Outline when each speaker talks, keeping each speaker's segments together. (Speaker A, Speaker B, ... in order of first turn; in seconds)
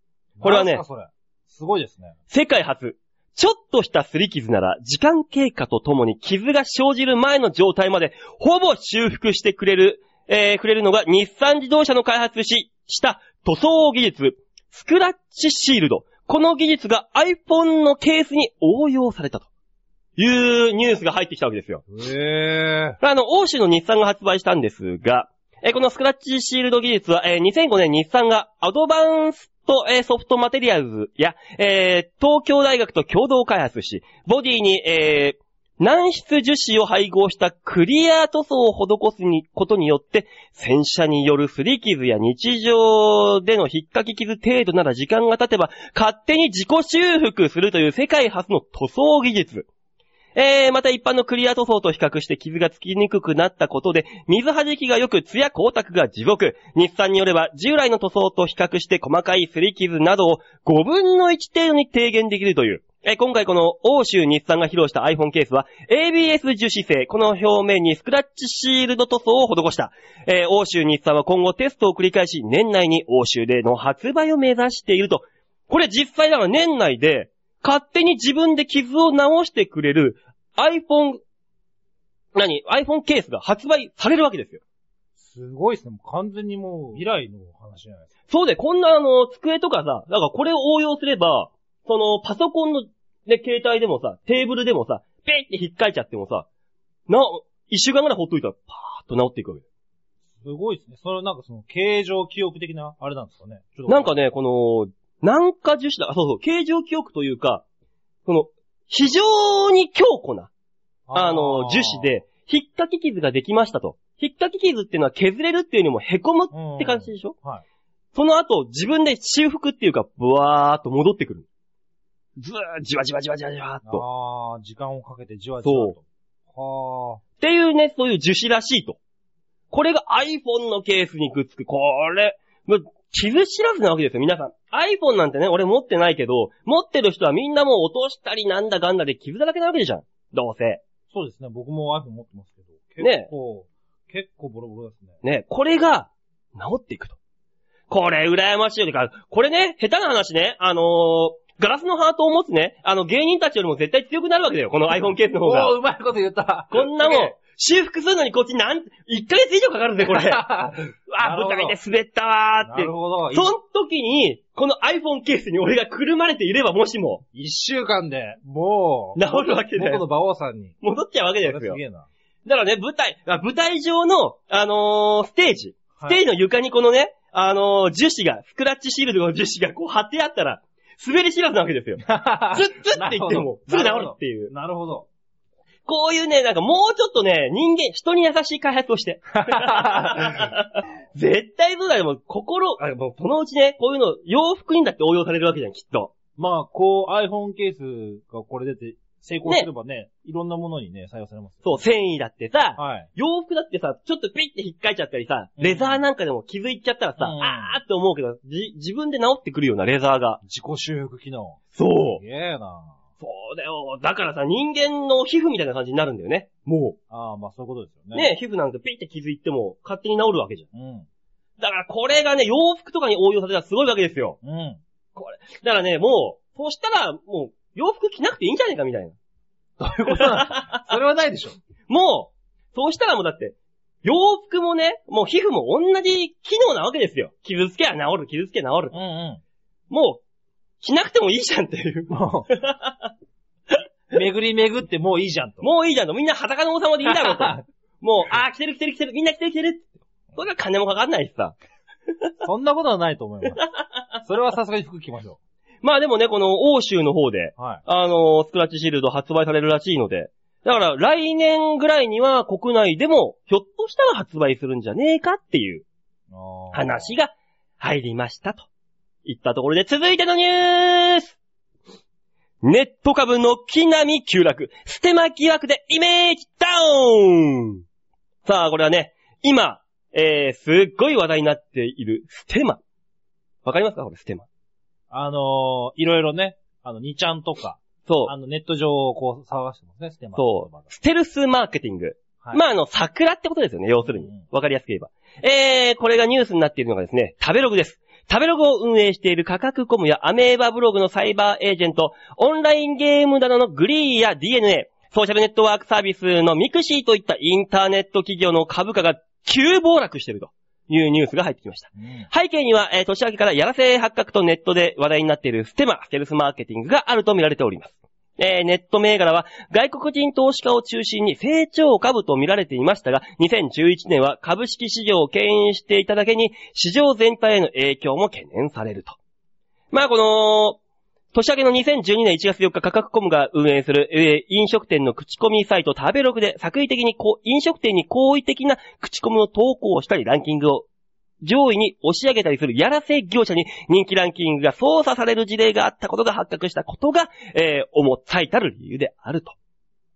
Speaker A: 0.4-2.1, 21.9-23.0, 85.2-88.1, 100.4-104.1, 111.1-112.1, 116.5-117.6, 123.8-127.2, 141.1-145.2, 155.4-157.3, 160.0-161.8, 162.6-163.5, 167.3-170.8, 171.4-172.1, 182.0-185.1, 189.4-190.5, 196.4-201.8, 202.8-203.1, 205.6-206.0, 207.2-207.7, 210.4-212.9, 217.1-218.3, 220.7-221.1, 224.4-224.8, 229.8-231.6, 238.9-239.4, 242.1-242.5, 244.1-245.7, 247.1-247.6, 252.4-253.6, 254.2-255.4, 257.6-257.8, 266.3-267.1, 285.1-290.8, 294.1-294.4, 312.0-312.3
Speaker B: 0.4-0.8, 2.3-19.5, 20.2-21.8, 23.0-49.7, 50.3-81.2, 82.3-84.6, 88.3-96.5, 97.1-99.6, 103.9-107.6, 108.2-110.5, 111.1-117.3, 118.1-121.5, 122.4-124.0, 125.6-126.0, 127.4-129.0, 129.7-140.8, 143.0-143.3, 145.2-147.2, 147.9-155.7, 156.7-160.5, 161.1-167.2, 169.2-170.0, 170.8-171.8, 172.4-184.5, 185.8-196.1, 201.6-210.4, 211.7-212.2, 213.2-217.0, 218.1-220.7, 221.6-224.4, 225.1-229.2, 230.1-230.9, 231.9-238.9, 239.9-240.2, 240.8-243.1, 245.6-251.5, 255.8-265.8, 266.7-268.7, 269.2-271.4, 272.6-277.8, 278.4-282.8, 283.6-284.4, 288.1-288.3, 290.4-329.2, 329.9-330.8, 331.3-340.9, 341.4-349.6